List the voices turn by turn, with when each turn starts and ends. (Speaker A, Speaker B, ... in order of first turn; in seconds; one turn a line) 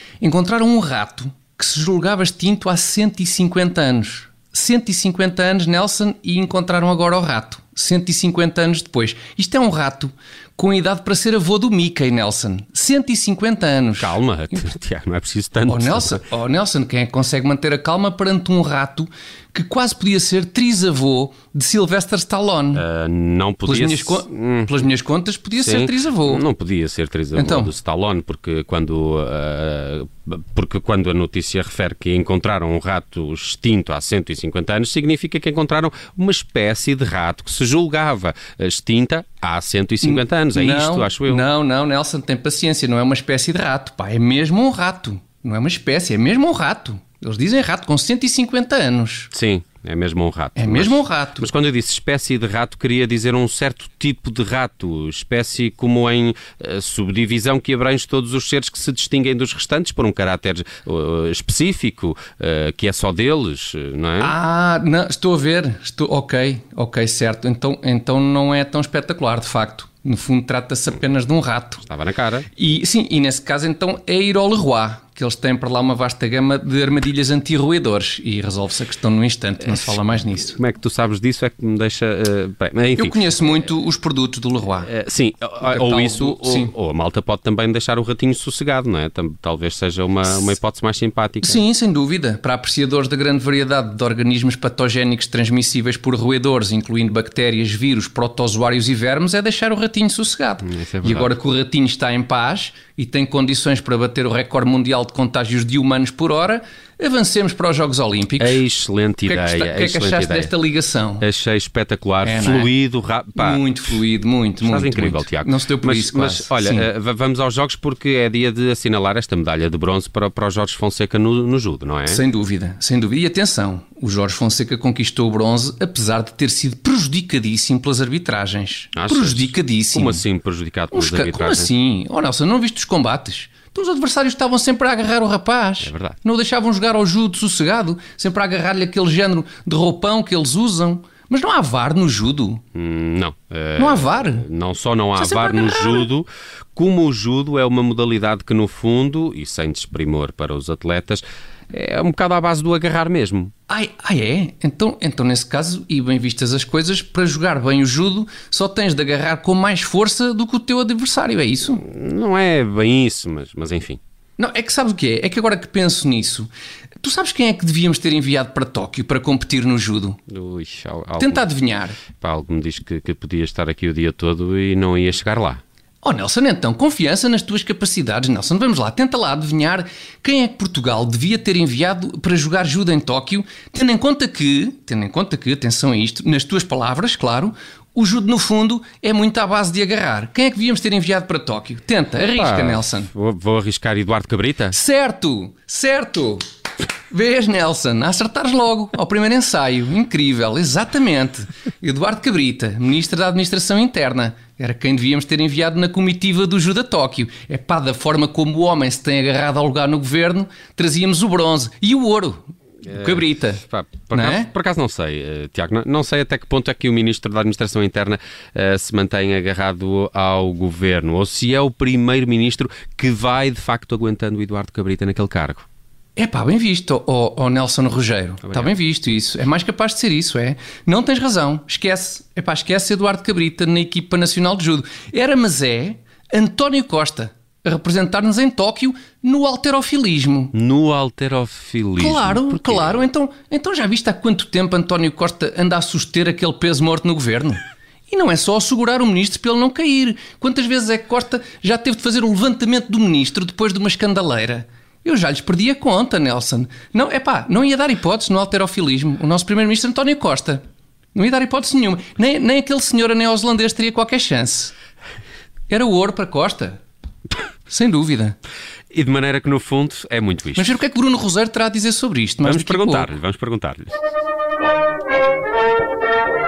Speaker A: 0.2-14.2
Speaker B: 14.0-16.2
Speaker A: 15.7-22.8
Speaker B: 22.8-24.7
Speaker A: 23.6-26.4
Speaker B: 25.6-41.5
Speaker A: 27.4-27.7
Speaker A: 40.0-49.3
Speaker B: 49.3-64.3
Speaker A: 50.6-51.5
Speaker A: 64.2-71.8
Speaker B: 71.8-72.5
Speaker A: 72.5-80.6
Speaker B: 80.6-83.3
Speaker A: 83.0-84.9
Speaker B: 84.9-91.6
Speaker A: 85.6-86.7
Speaker A: 91.4-108.6
Speaker B: 100.7-101.3
Speaker B: 108.4-110.5
Speaker A: 109.3-111.3
Speaker B: 111.2-113.6
Speaker A: 112.2-112.7
Speaker A: 113.4-116.9
Speaker B: 114.6-122.2
Speaker A: 122.1-130.2
Speaker B: 128.9-131.7
Speaker A: 130.9-142.6
Speaker B: 135.8-136.2
Speaker B: 142.8-153.5
Speaker A: 143.8-144.4
Speaker A: 145.2-146.1
Speaker A: 153.7-161.8
Speaker B: 161.8-164.0
Speaker A: 164.4-166.5
Speaker A: 167.0-170.2
Speaker B: 170.3-171.4
Speaker A: 171.2-172.0
Speaker B: 172.2-175.6
Speaker A: 176.0-193.1
Speaker B: 192.2-194.8
Speaker A: 194.7-196.4
Speaker A: 197.1-214.5
Speaker B: 212.9-225.7
Speaker A: 226.2-240.5
Speaker B: 228.4-228.7
Speaker B: 240.5-243.0
Speaker A: 242.0-260.6
Speaker A: 261.1-264.7
Speaker A: 265.7-266.8
Speaker A: 267.7-268.4
Speaker B: 268.9-270.7
Speaker A: 270.6-273.1
Speaker B: 272.4-273.9